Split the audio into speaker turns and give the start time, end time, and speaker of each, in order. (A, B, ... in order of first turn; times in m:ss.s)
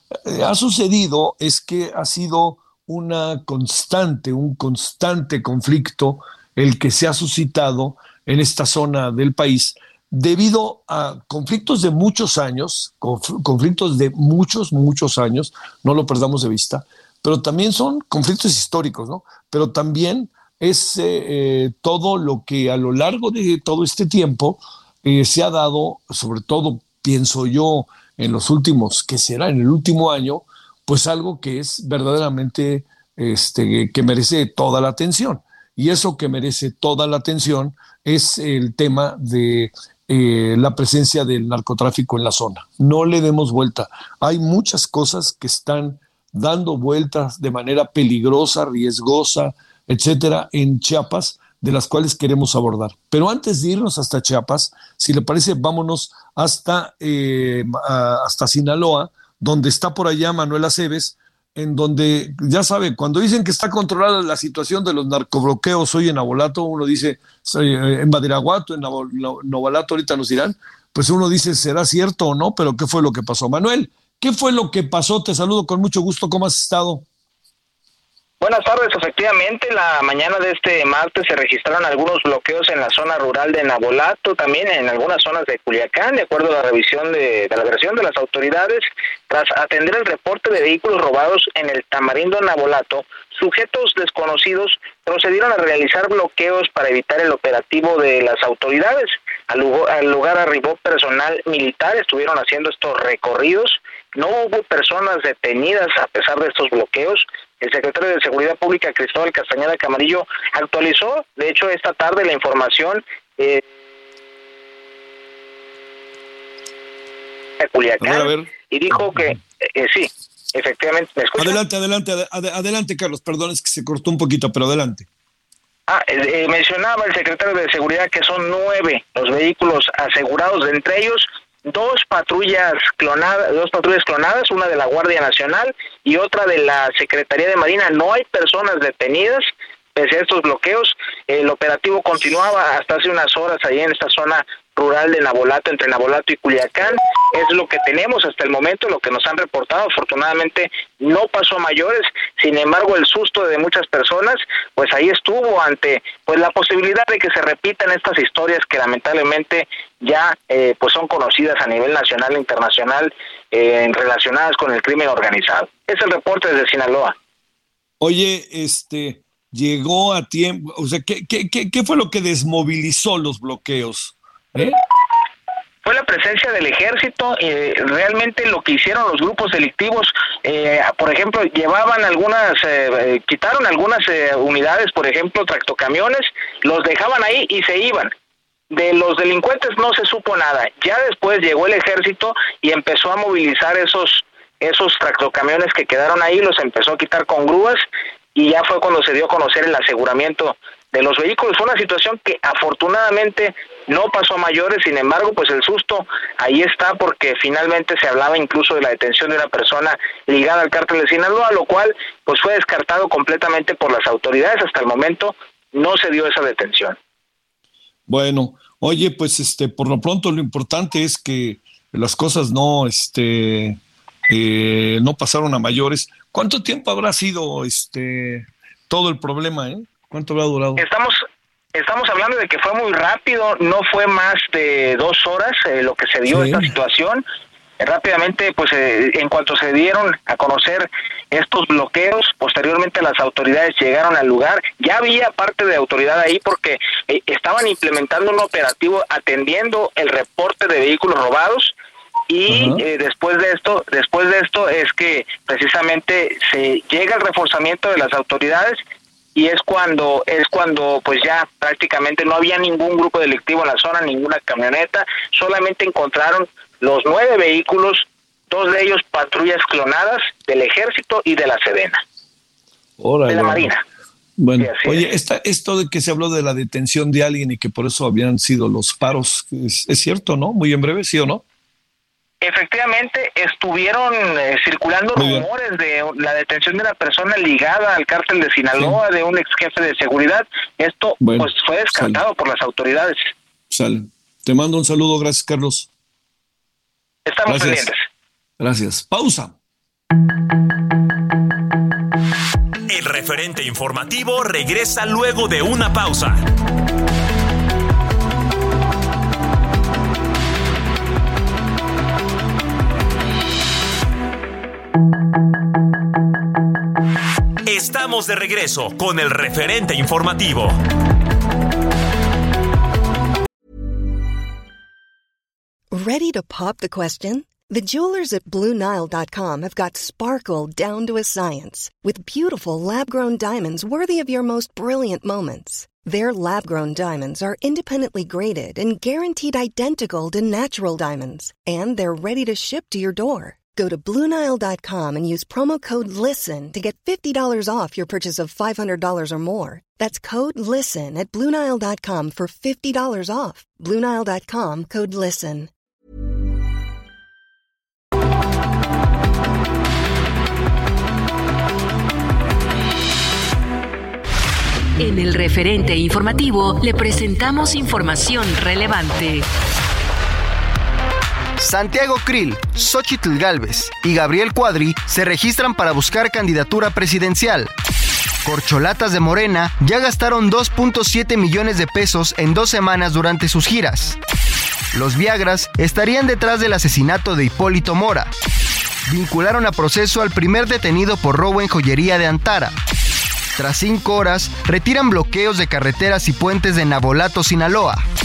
0:00.2-1:17.0 A
1:18.4-1:53.6 B
1:57.6-2:01.6 B
1:58.0-1:58.5 A
2:01.4-2:05.1 A
2:05.9-2:47.1 B
2:48.0-2:54.8 A
2:55.8-3:08.1 B
3:08.7-3:37.0 B
3:38.1-3:50.8 A
3:50.8-3:57.2 B
3:56.3-3:56.7 A
3:57.8-4:11.7 B
4:12.3-4:18.8 B
4:12.5-4:12.8 A
4:19.3-4:32.0 B
4:33.0-4:33.7 A
4:33.3-4:33.8 B
4:34.4-4:41.4 A
4:34.6-4:35.0 B
4:42.4-4:53.3 B
4:45.2-4:45.5 A
4:51.2-4:52.2 A
4:53.7-4:55.9 A
4:57.2-4:58.0 B
4:57.5-4:57.9 A
4:58.6-4:59.5 A
5:02.9-5:06.4 C
5:17.6-5:20.8 C
5:25.9-5:55.7 D
6:05.0-6:09.4 E
6:11.6-6:17.7 F
6:18.4-6:24.2 F
6:24.9-6:28.3 F
6:29.1-6:32.7 F
6:33.6-6:38.0 F